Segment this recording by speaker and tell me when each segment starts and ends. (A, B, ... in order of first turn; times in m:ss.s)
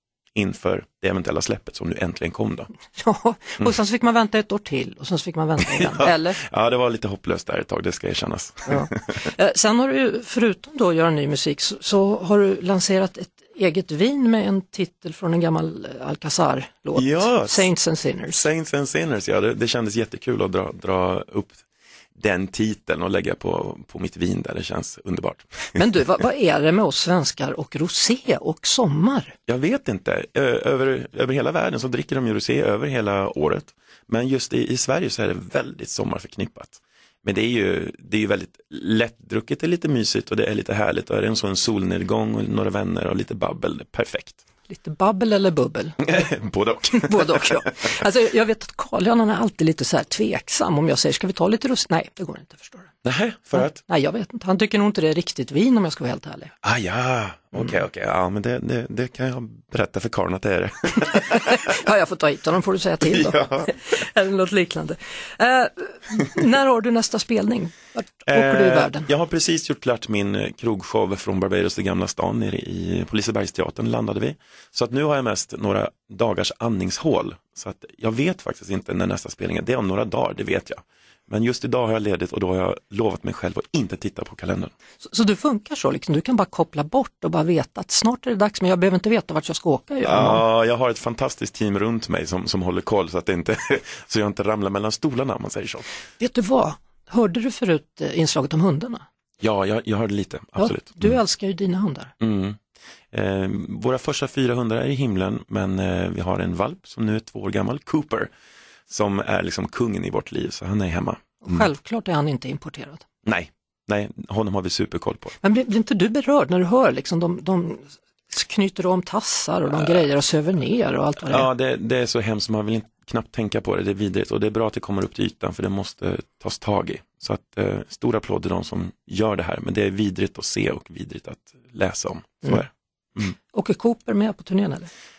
0:00.4-0:02.7 A
0:02.9-0:06.4 B
0:05.8-0:09.2 A
0:08.7-0:18.4 B
0:17.0-0:17.7 A
0:18.3-0:21.6 A
0:22.2-0:25.8 A
0:25.8-0:29.4 B
0:29.5-0:44.4 A
0:44.7-0:46.2 B
0:46.0-0:47.6 A
0:46.9-0:52.9 B
0:53.0-0:53.8 A
0:53.6-0:56.5 B
0:56.6-1:01.6 A
1:01.2-1:09.1 B
1:03.0-1:03.8 A
1:08.3-1:24.7 A
1:25.0-1:30.4 B
1:30.0-1:35.9 A
1:36.2-1:39.0 B
1:39.4-1:41.2 A
1:40.6-1:42.1 B
1:42.2-1:42.6 A
1:43.1-1:48.3 A
1:48.9-1:51.7 A
1:51.4-1:53.0 B
1:53.2-1:55.3 A
1:55.4-2:01.5 B
2:01.2-2:13.3 A
2:13.5-2:14.9 B